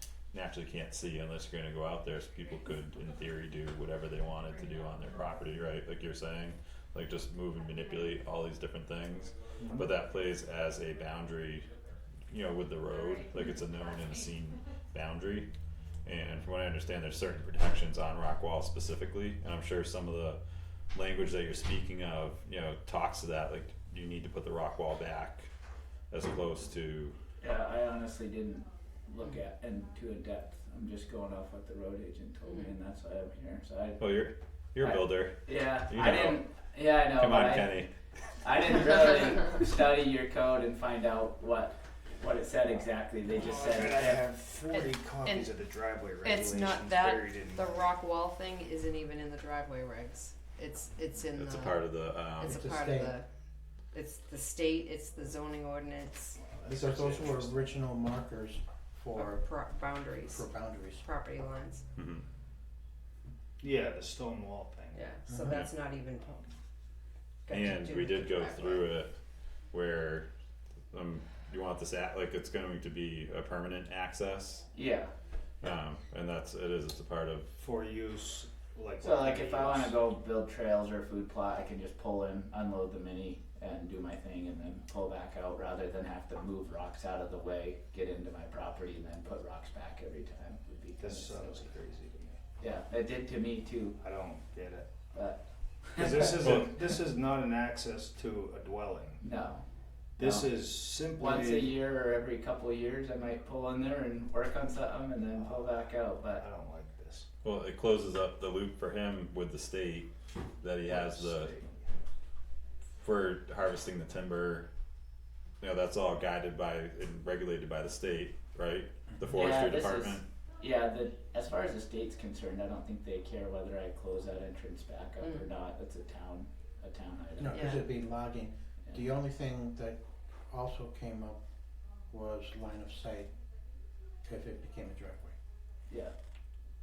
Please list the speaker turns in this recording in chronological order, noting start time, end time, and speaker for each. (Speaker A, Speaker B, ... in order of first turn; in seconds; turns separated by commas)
Speaker A: 0.3-11.7, Speaker B: 9.6-9.9, Speaker A: 12.3-15.5, Speaker A: 16.1-20.4, Speaker A: 20.9-25.5, Speaker A: 26.1-27.2, Speaker C: 27.4-34.1, Speaker A: 34.0-36.4, Speaker C: 34.8-37.7, Speaker A: 37.1-37.9, Speaker C: 38.4-44.3, Speaker B: 43.3-48.0, Speaker D: 44.8-45.5, Speaker D: 46.2-51.8, Speaker A: 51.4-52.6, Speaker E: 52.4-53.2, Speaker D: 52.4-53.3, Speaker D: 53.9-56.4, Speaker B: 56.4-57.7, Speaker E: 56.7-61.1, Speaker D: 59.1-61.8, Speaker A: 62.0-62.2, Speaker B: 63.6-65.1, Speaker D: 65.0-66.5, Speaker E: 65.3-65.6, Speaker A: 65.3-65.7, Speaker D: 67.5-68.9, Speaker A: 67.5-69.1, Speaker A: 69.7-70.3, Speaker A: 70.9-74.7, Speaker C: 74.7-75.1, Speaker A: 75.6-77.5, Speaker B: 77.6-80.0, Speaker C: 79.0-91.7, Speaker B: 91.0-92.4, Speaker C: 92.6-94.0, Speaker B: 94.0-94.9, Speaker C: 95.1-96.4, Speaker B: 96.0-99.2, Speaker C: 99.2-99.7, Speaker B: 100.2-101.8, Speaker C: 100.2-100.5, Speaker C: 101.1-106.5, Speaker B: 106.3-107.3, Speaker A: 107.4-110.1, Speaker A: 110.6-111.5, Speaker C: 110.9-111.6, Speaker B: 111.1-111.7, Speaker A: 113.0-114.7, Speaker A: 115.6-120.2, Speaker C: 119.3-127.8, Speaker E: 127.4-131.4, Speaker D: 127.5-127.8, Speaker E: 132.1-133.3, Speaker E: 134.2-135.3, Speaker C: 135.9-136.1